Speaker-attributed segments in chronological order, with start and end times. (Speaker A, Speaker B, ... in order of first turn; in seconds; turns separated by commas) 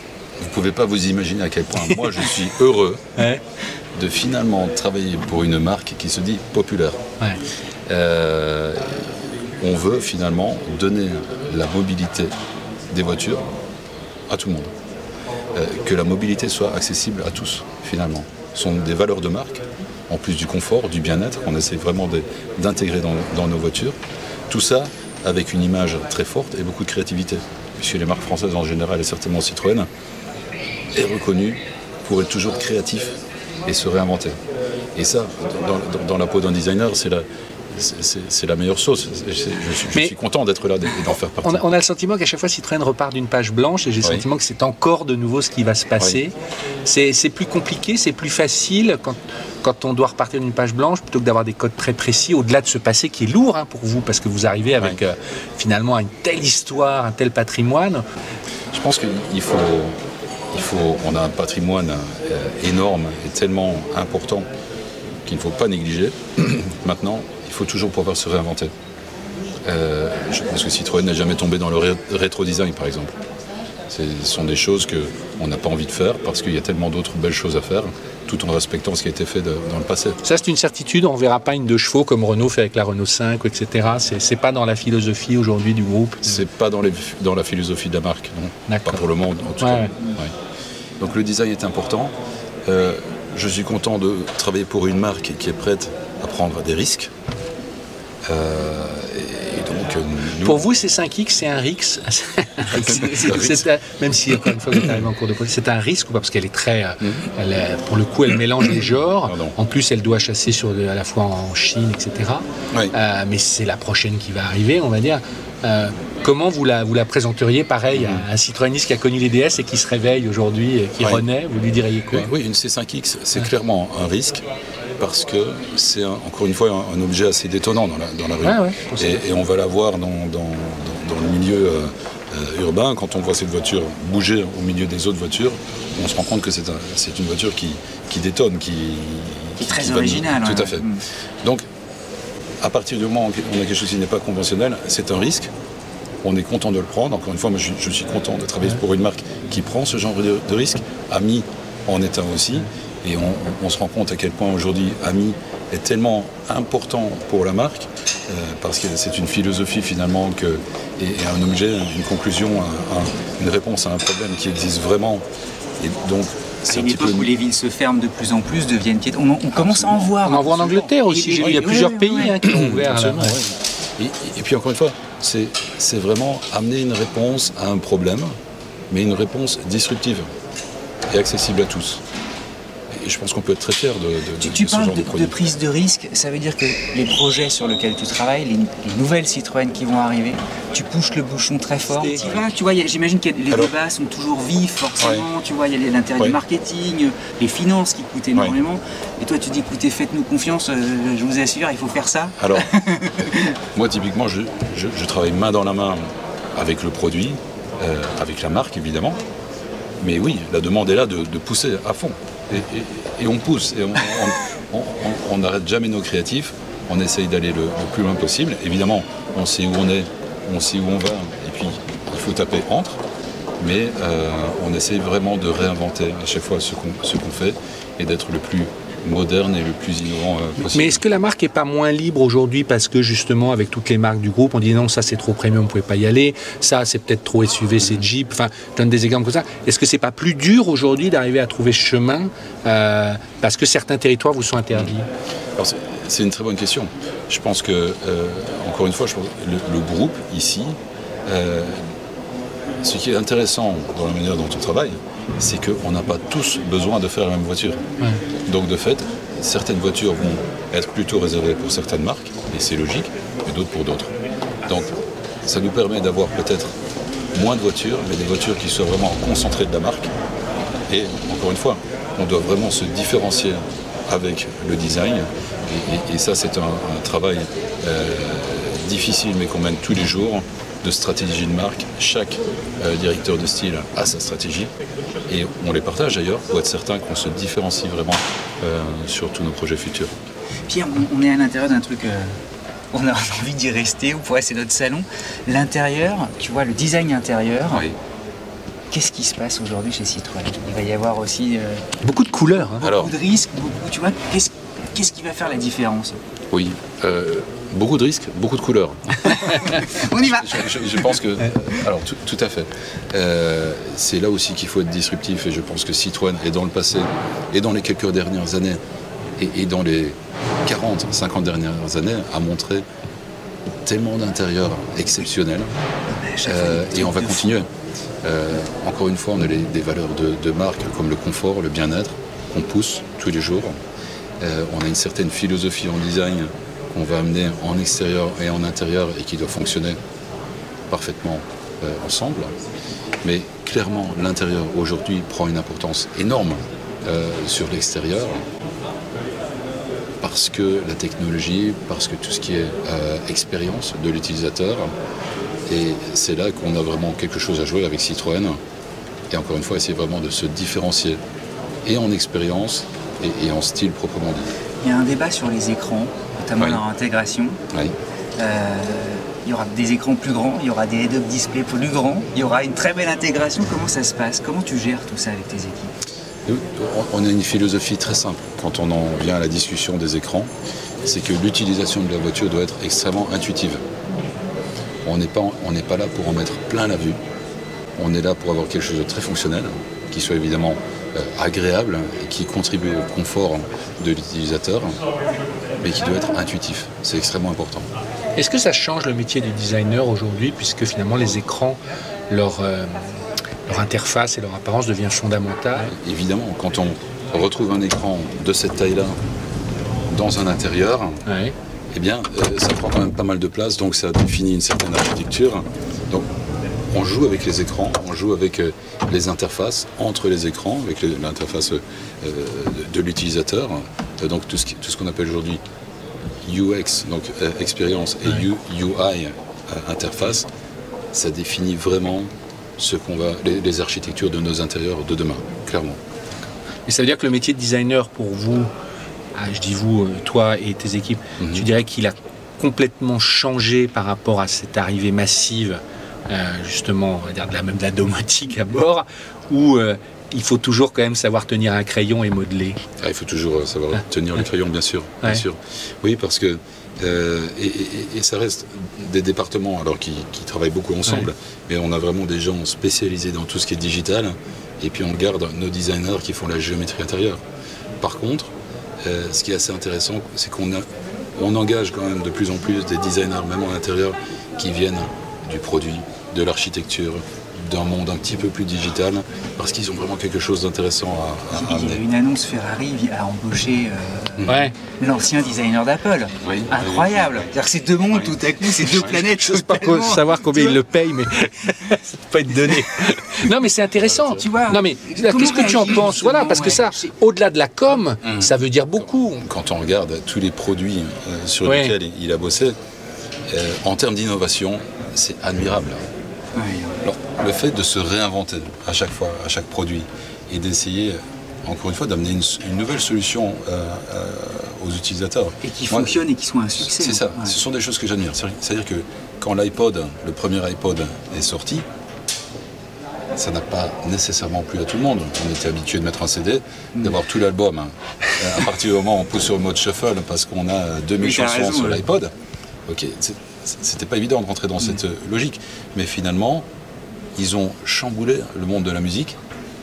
Speaker A: 0.4-3.0, Speaker B: 3.1-3.4, Speaker A: 4.0-7.0, Speaker A: 7.9-9.1, Speaker A: 9.6-12.3, Speaker A: 12.9-13.4, Speaker A: 14.3-14.7, Speaker A: 15.5-23.9, Speaker A: 24.5-29.9, Speaker A: 30.9-34.4, Speaker A: 34.9-41.6, Speaker B: 41.4-58.0, Speaker A: 58.7-64.5, Speaker A: 65.2-68.7, Speaker A: 69.7-73.2, Speaker A: 73.9-80.2, Speaker B: 80.2-86.4, Speaker A: 86.2-90.3, Speaker B: 88.7-89.0, Speaker B: 89.6-89.9, Speaker A: 91.0-97.1, Speaker A: 98.3-100.6, Speaker B: 100.4-122.3, Speaker A: 102.7-103.7, Speaker A: 104.7-105.0, Speaker A: 107.0-107.3, Speaker A: 109.2-109.5, Speaker A: 117.9-118.3, Speaker A: 122.1-124.4, Speaker A: 125.0-140.9, Speaker B: 128.4-129.2, Speaker C: 139.6-141.0, Speaker A: 142.6-145.5, Speaker A: 146.2-165.2, Speaker A: 165.8-167.3, Speaker C: 166.7-172.4, Speaker A: 169.6-170.1, Speaker B: 170.2-173.4, Speaker A: 171.4-171.7, Speaker A: 172.3-178.3, Speaker A: 178.9-180.2, Speaker A: 181.1-182.0, Speaker A: 182.9-185.3, Speaker C: 184.4-203.6, Speaker B: 191.9-192.4, Speaker A: 195.0-195.3, Speaker A: 202.4-202.7, Speaker A: 203.7-209.2, Speaker A: 210.0-223.0, Speaker A: 223.6-231.0, Speaker B: 230.7-245.1, Speaker A: 245.6-251.8, Speaker A: 252.8-257.8, Speaker A: 258.5-264.1, Speaker A: 264.6-266.8, Speaker A: 267.3-270.1, Speaker A: 270.9-284.7, Speaker A: 285.3-290.1, Speaker C: 290.7-292.4, Speaker C: 292.9-297.8, Speaker A: 297.7-297.9, Speaker C: 298.9-301.9, Speaker B: 302.0-302.9, Speaker C: 302.8-306.2, Speaker A: 302.8-303.1, Speaker A: 306.5-318.8, Speaker C: 309.3-311.2, Speaker A: 319.4-322.8, Speaker A: 323.8-325.7, Speaker C: 326.1-327.5, Speaker A: 326.4-327.7, Speaker A: 328.2-333.7, Speaker A: 334.4-340.0, Speaker A: 340.9-342.5, Speaker A: 343.2-348.4, Speaker A: 350.2-354.9, Speaker A: 355.7-358.6, Speaker A: 359.3-361.2, Speaker A: 361.8-364.5, Speaker C: 364.8-367.6, Speaker A: 366.6-366.8, Speaker C: 368.4-375.9, Speaker A: 376.4-380.5, Speaker A: 381.0-383.8, Speaker A: 385.0-387.2, Speaker A: 388.0-395.0, Speaker A: 395.8-397.9, Speaker B: 398.4-403.0, Speaker B: 403.6-405.9, Speaker A: 405.9-409.2, Speaker A: 410.1-411.2, Speaker B: 411.2-411.5, Speaker A: 411.9-416.3, Speaker A: 416.9-425.6, Speaker A: 426.4-430.5, Speaker A: 431.1-436.0, Speaker B: 436.9-438.7, Speaker B: 439.3-452.8, Speaker A: 441.4-441.7, Speaker A: 453.0-467.4, Speaker A: 468.0-468.5, Speaker A: 469.0-470.8, Speaker A: 471.4-482.0, Speaker C: 481.5-490.8, Speaker A: 484.4-484.7, Speaker B: 484.4-484.7, Speaker A: 486.4-487.5, Speaker A: 488.1-489.2, Speaker B: 489.1-499.4, Speaker A: 494.0-494.4, Speaker C: 494.3-497.1, Speaker A: 498.2-502.7, Speaker B: 501.6-501.9, Speaker A: 503.5-506.0, Speaker C: 506.6-507.0, Speaker A: 507.0-516.1, Speaker C: 515.6-517.6, Speaker A: 516.8-521.8, Speaker A: 523.3-532.3, Speaker C: 531.2-532.0, Speaker A: 532.9-536.6, Speaker A: 537.4-539.4